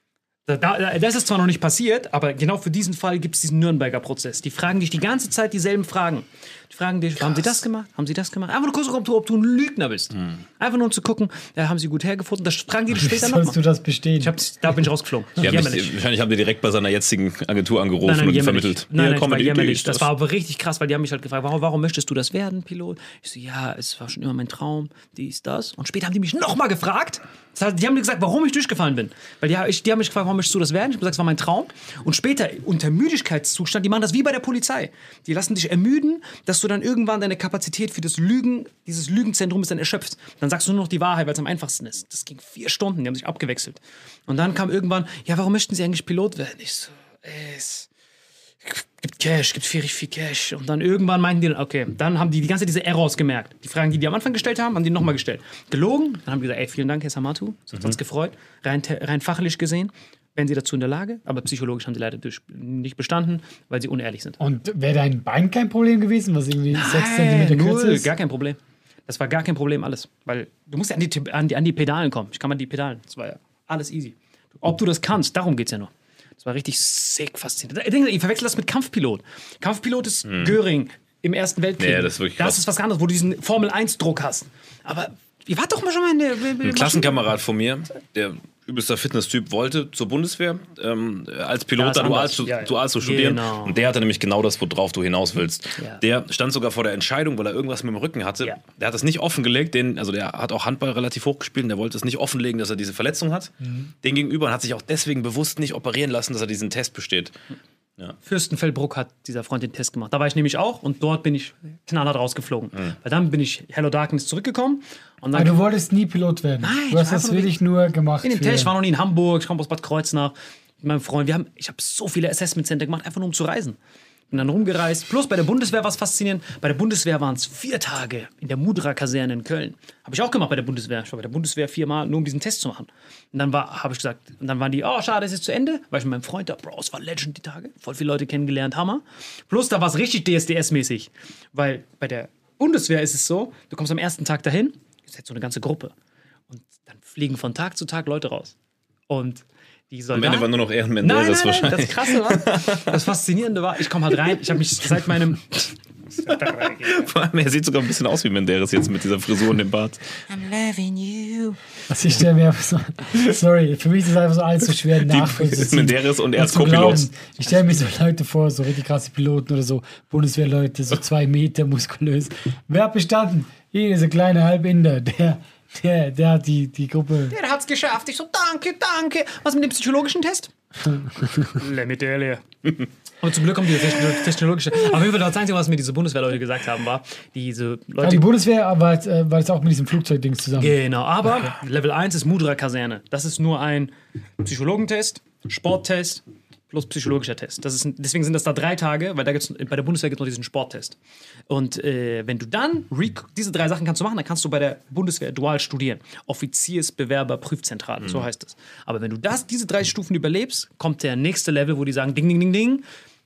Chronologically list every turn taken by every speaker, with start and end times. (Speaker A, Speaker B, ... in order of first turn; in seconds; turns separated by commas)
Speaker A: 0.5-13.6, Speaker B: 12.9-14.3, Speaker A: 14.2-15.9, Speaker C: 15.4-20.1, Speaker A: 18.0-47.9, Speaker A: 48.6-64.4, Speaker B: 64.4-68.1, Speaker A: 66.7-87.2, Speaker C: 80.3-80.6, Speaker C: 81.8-82.6, Speaker C: 86.6-107.3, Speaker A: 91.8-93.8, Speaker A: 108.2-115.6, Speaker B: 115.3-118.7, Speaker A: 116.6-117.5, Speaker A: 118.2-123.8, Speaker A: 124.3-145.9, Speaker A: 146.5-148.5, Speaker A: 149.1-150.5, Speaker C: 150.1-153.0, Speaker A: 151.0-157.1, Speaker C: 156.3-160.2, Speaker A: 160.3-161.6, Speaker B: 161.9-177.3, Speaker C: 165.0-167.0, Speaker A: 177.3-180.5, Speaker B: 180.8-181.6, Speaker A: 181.6-182.4, Speaker A: 183.2-188.2, Speaker B: 188.0-190.8, Speaker A: 190.6-201.0, Speaker A: 201.5-212.8